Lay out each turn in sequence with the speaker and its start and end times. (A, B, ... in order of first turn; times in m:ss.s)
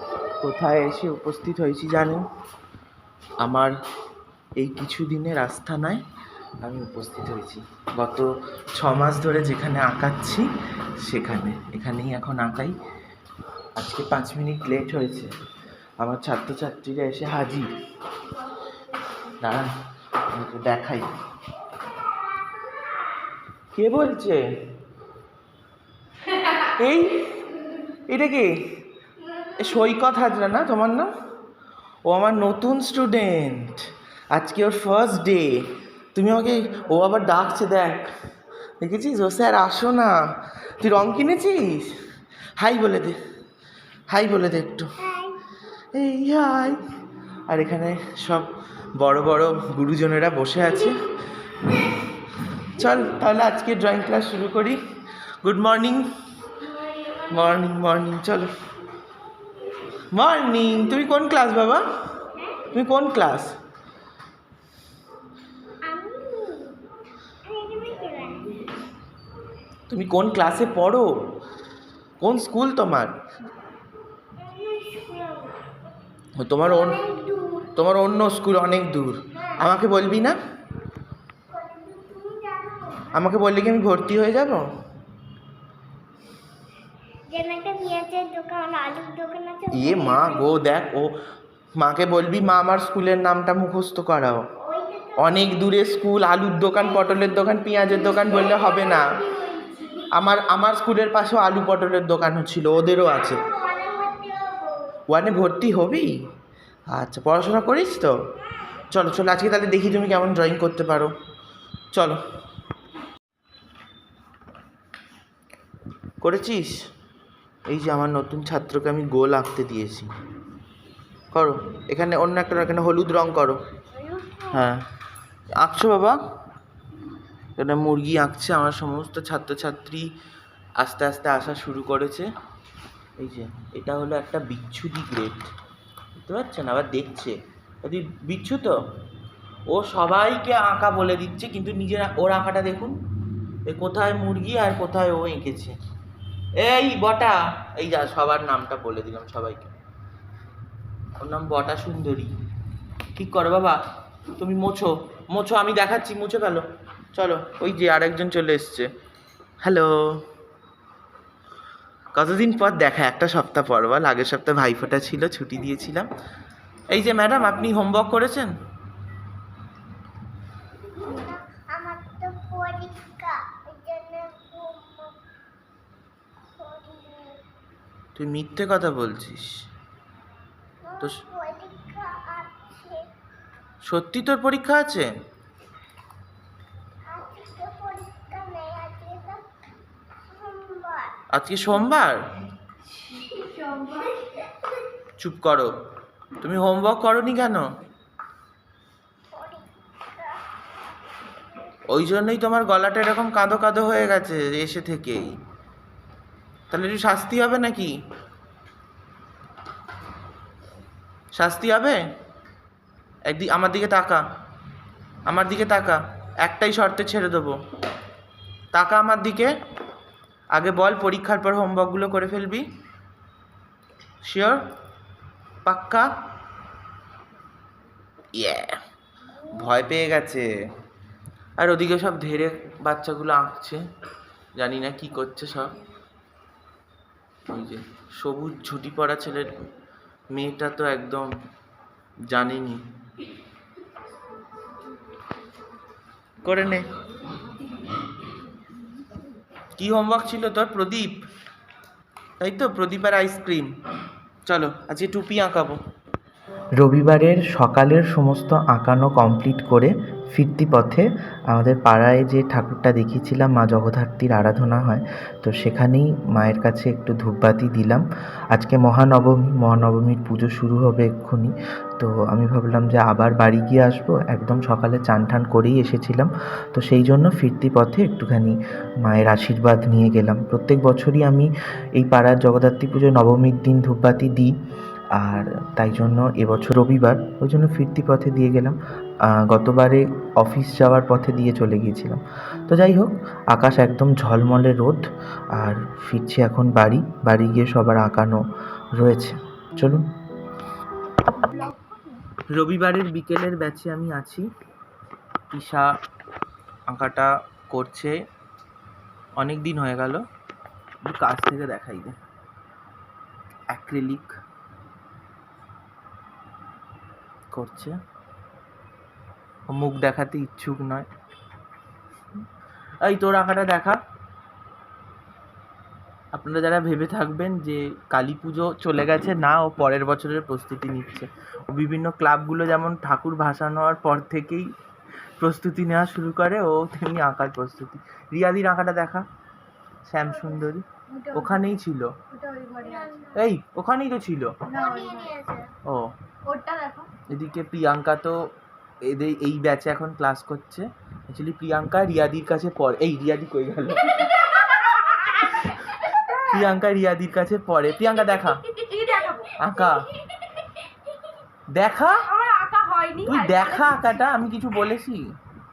0:00.4-0:02.2 A
0:03.4-0:03.7 A
0:04.6-0:06.0 A
0:06.6-0:08.3 A
0:08.8-0:10.5 A
0:11.0-0:12.8 A
0:13.8-0:15.3 A
0:16.0-0:17.8 A
0:19.4-0:19.7 A
0:20.3-0:21.1 A
0:23.8-0:24.4 A
0:26.6-0:27.2 A
0:28.1-0:28.6 A
0:29.6-0:31.1 A
0:32.0-0:38.1 A
0:38.8-0:40.2 A
0:40.8-0:42.0 A
0:42.6-0:43.2 A
0:44.1-0:44.9 A
0:45.0-0:45.4 B
0:45.9-0:46.8 A
0:47.5-0:51.0 A
0:52.6-0:54.8 A
0:55.4-0:56.1 A
0:57.3-0:58.5 A
1:00.1-1:01.8 A
1:02.4-1:02.6 B
1:02.7-1:03.5 A
1:05.8-1:06.8 B
1:07.4-1:08.8 B
1:09.9-1:11.1 A
1:12.2-1:13.2 A
1:14.4-1:15.6 B
1:16.4-1:17.0 A
1:16.6-1:17.7 B
1:17.8-1:20.4 A
1:19.3-1:19.8 B
1:21.5-1:23.3 B
1:23.1-1:24.6 A
1:27.3-1:30.6 B
1:29.7-1:31.1 A
1:31.8-1:34.4 A
1:34.6-1:35.6 B
1:35.2-1:39.1 A
1:37.2-1:40.1 B
1:40.1-1:43.4 A
1:43.2-1:45.0 B
1:45.1-1:46.1 A
1:46.9-1:48.2 A
1:48.9-1:51.1 A
1:51.9-1:52.2 A
1:56.2-1:56.8 A
1:57.7-2:00.1 A
2:01.3-2:03.6 A
2:03.9-2:04.7 B
2:04.5-2:04.8 A
2:05.6-2:06.2 A
2:07.6-2:10.1 A
2:10.8-2:12.3 A
2:13.2-2:15.5 A
2:16.2-2:18.8 A
2:19.7-2:23.0 A
2:23.7-2:25.8 A
2:26.6-2:29.7 A
2:31.2-2:32.3 A
2:33.2-2:33.8 A
2:34.4-2:38.9 A
2:39.6-2:40.3 A
2:42.1-2:46.1 A
2:46.9-2:48.5 A
2:50.8-2:55.2 B
2:56.6-2:57.4 B
2:58.2-2:59.5 A
3:00.8-3:03.1 B
3:03.8-3:05.1 A
3:07.1-3:09.5 B
3:10.3-3:11.2 B
3:11.3-3:12.2 A
3:13.9-3:14.7 B
3:15.2-3:15.7 A
3:16.4-3:17.6 A
3:19.3-3:20.4 B
3:21.9-3:25.3 A
3:26.7-3:27.9 A
3:31.3-3:32.0 A
3:33.3-3:34.2 A
3:35.3-3:37.6 A
3:38.7-3:39.5 A
3:40.5-3:42.7 A
3:44.2-3:44.6 A
3:45.7-3:46.1 A
3:48.3-3:48.8 A
3:49.5-3:50.5 A
3:51.6-3:53.8 A
3:54.6-3:55.7 A
3:57.5-3:59.5 A
4:00.3-4:01.3 A
4:02.3-4:02.8 A
4:06.4-4:06.9 A
4:09.8-4:11.2 A
4:12.4-4:13.8 A
4:14.5-4:15.8 A
4:16.8-4:44.5 A
4:45.2-4:55.0 A
4:55.6-4:58.4 A
4:59.0-5:00.0 A
5:02.5-5:04.5 A
5:05.5-5:05.9 A
5:06.9-5:08.2 A
5:09.4-5:10.2 A
5:11.0-5:12.2 A
5:13.7-5:14.3 A
5:17.5-5:18.0 A
5:19.7-5:21.1 A
5:23.0-5:24.0 A
5:26.3-5:34.7 A
5:35.4-5:39.3 A
5:40.1-5:42.2 A
5:41.1-5:41.8 C
5:42.3-5:43.1 C
5:42.8-5:43.5 B
5:43.4-5:44.6 A
5:44.7-5:45.3 C
5:44.7-5:45.7 B
5:46.5-5:47.1 C
5:47.3-5:48.5 A
5:49.1-5:55.8 A
5:56.3-5:58.6 A
5:58.6-5:59.6 C
5:59.6-6:00.1 A
6:01.7-6:02.3 A
6:02.3-6:04.2 C
6:03.2-6:05.2 A